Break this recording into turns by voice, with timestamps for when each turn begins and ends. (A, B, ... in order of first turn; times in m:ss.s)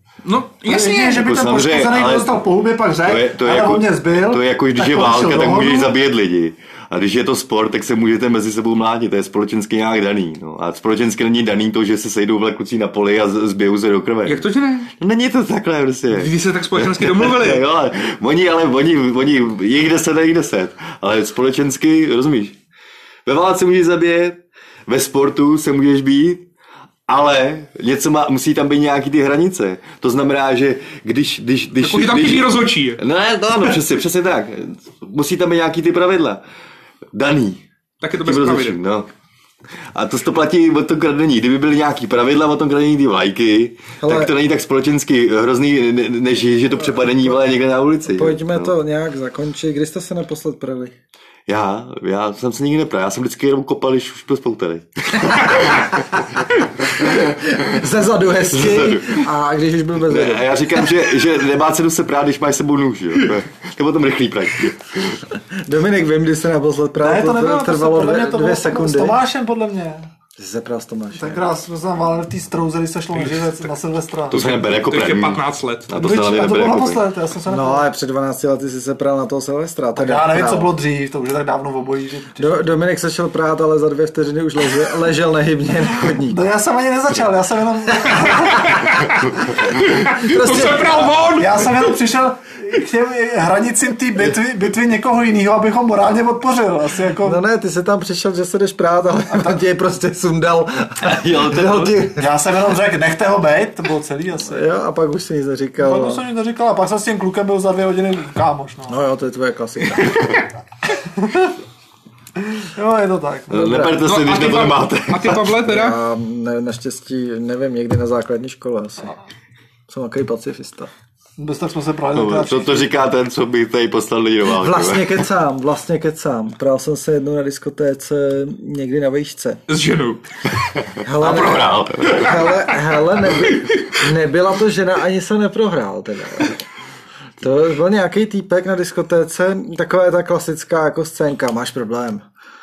0:00.2-0:01.3 A
0:00.6-0:05.9 B
0:01.1-0:02.4 C
0:03.0-0:22.6 C
0:14.2-0:14.9 A
0:16.1-0:17.6 A
0:23.2-0:26.4 C
0:27.1-0:36.4 C
0:31.8-0:33.0 A
0:37.1-0:37.6 C
0:38.0-0:38.8 A
0:38.2-0:39.1 C
0:39.9-0:48.7 C
0:44.0-0:44.3 D
0:48.1-0:50.9 D
0:51.5-0:56.0 C
0:57.0-1:00.9 D
0:58.5-0:59.2 C
1:00.0-1:05.2 C
1:05.5-1:09.2 D
1:07.0-1:10.1 B
1:10.4-1:11.4 D
1:11.1-1:14.5 B
1:13.2-1:13.5 A
1:14.3-1:17.0 C
1:14.3-1:15.9 A
1:15.9-1:17.9 B
1:17.5-1:20.7 D
1:20.0-1:22.6 B
1:22.4-1:26.4 D
1:26.2-1:29.1 B
1:28.4-1:32.0 A
1:30.2-1:31.1 D
1:31.3-1:37.4 B
1:37.2-1:42.3 D
1:41.0-1:42.0 C
1:42.2-1:44.6 B
1:44.4-1:46.2 D
1:45.8-1:49.0 B
1:48.9-1:50.3 D
1:51.2-1:51.5 B
1:52.6-1:53.6 B
1:53.5-1:55.5 C
1:53.5-1:54.0 D
1:54.0-1:56.0 A
1:55.6-1:59.1 D
1:59.9-2:00.9 D
2:01.4-2:02.9 B
2:02.1-2:05.1 C
2:04.5-2:09.6 D
2:09.7-2:10.2 A
2:11.0-2:16.6 D
2:11.2-2:12.4 C
2:11.2-2:12.8 A
2:13.3-2:14.0 A
2:17.4-2:22.2 D